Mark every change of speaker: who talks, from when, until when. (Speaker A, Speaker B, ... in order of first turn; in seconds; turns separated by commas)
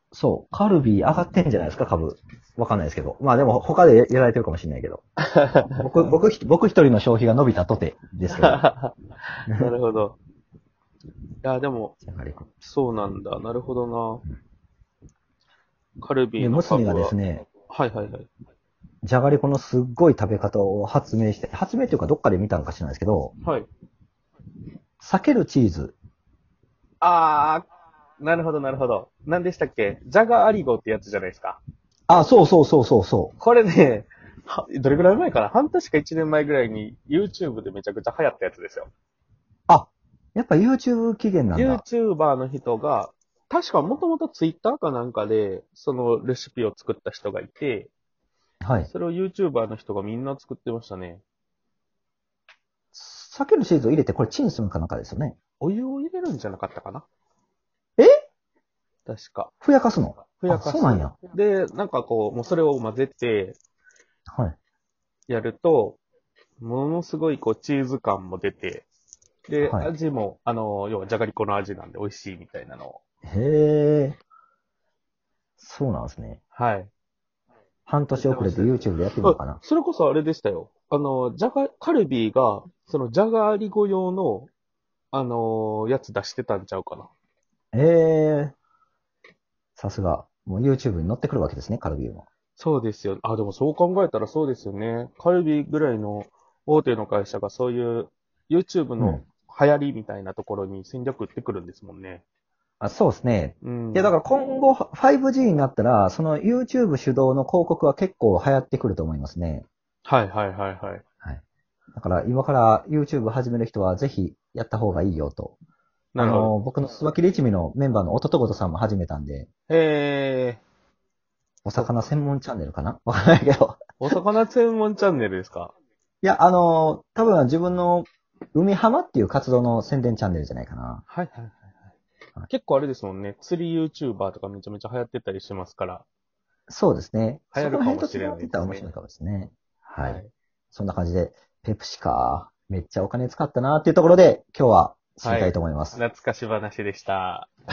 Speaker A: 0.1-5.0, Speaker B: 5.2-5.8, Speaker A: 5.8-8.6, Speaker B: 8.3-10.2, Speaker B: 11.4-11.9, Speaker A: 12.0-12.5, Speaker B: 12.6-14.2, Speaker B: 16.0-18.3, Speaker A: 16.4-17.5, Speaker A: 19.0-23.3, Speaker A: 25.0-25.9, Speaker B: 27.0-27.6, Speaker B: 28.2-31.6, Speaker A: 32.1-33.3, Speaker B: 33.4-38.9, Speaker A: 39.7-41.8, Speaker B: 41.5-47.9, Speaker A: 48.6-48.9, Speaker B: 48.9-51.2, Speaker A: 52.9-55.3, Speaker B: 55.6-57.0, Speaker B: 59.0-59.5, Speaker A: 59.6-61.1, Speaker B: 60.4-63.6, Speaker B: 65.3-66.0, Speaker B: 66.6-68.8, Speaker B: 69.5-73.0, Speaker A: 69.6-69.9, Speaker A: 73.2-74.2, Speaker A: 75.6-76.4, Speaker B: 76.5-76.9, Speaker A: 77.9-79.6, Speaker B: 78.1-84.5, Speaker B: 85.1-87.1, Speaker A: 87.7-88.5, Speaker A: 89.8-92.2, Speaker B: 92.6-102.2, Speaker A: 102.8-109.7, Speaker B: 103.6-104.1, Speaker B: 110.0-111.0, Speaker A: 111.9-115.5, Speaker B: 116.1-116.5, Speaker A: 116.2-119.5, Speaker B: 119.7-120.6, Speaker A: 121.6-124.1, Speaker B: 124.0-125.7, Speaker A: 126.2-131.0, Speaker B: 131.1-131.9, Speaker B: 132.5-136.0, Speaker A: 136.7-140.2, Speaker B: 137.5-138.9, Speaker B: 140.0-140.3, Speaker A: 140.7-146.0, Speaker B: 145.2-147.5